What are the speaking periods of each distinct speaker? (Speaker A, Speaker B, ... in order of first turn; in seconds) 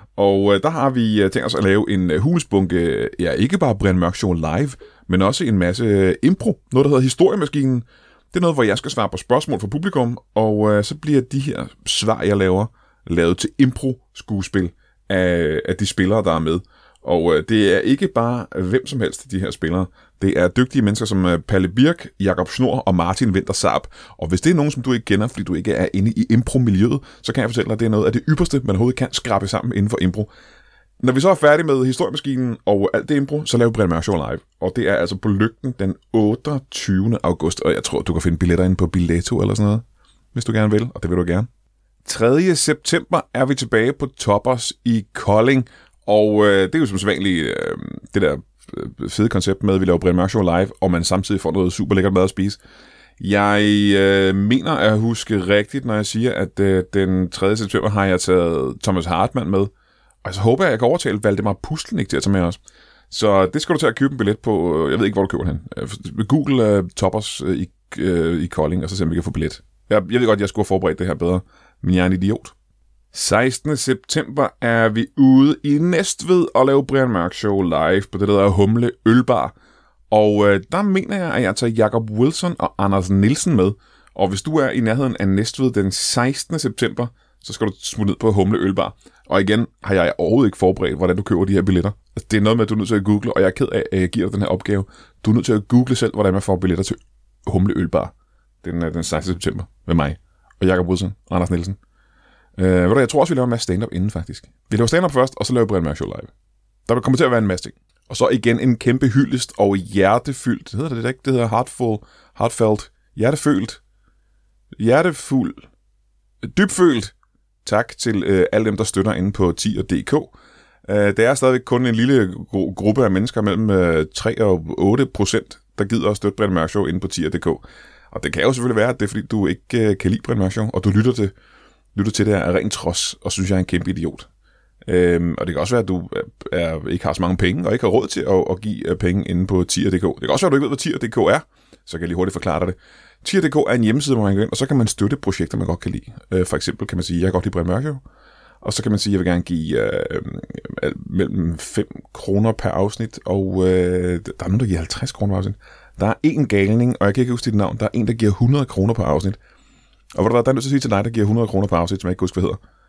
Speaker A: 0.2-30.3, 31.0-41.5, 42.0-52.6, 53.2-59.7, 60.2-62.6, 63.1-72.5, 73.1-79.5, 80.1-101.8, 102.6-106.3, 106.9-113.8, 114.8-115.6, 116.4-117.1, 117.6-120.3, 120.9-131.3, 131.9-134.3, 134.8-148.0, 148.6-159.4, 160.1-162.6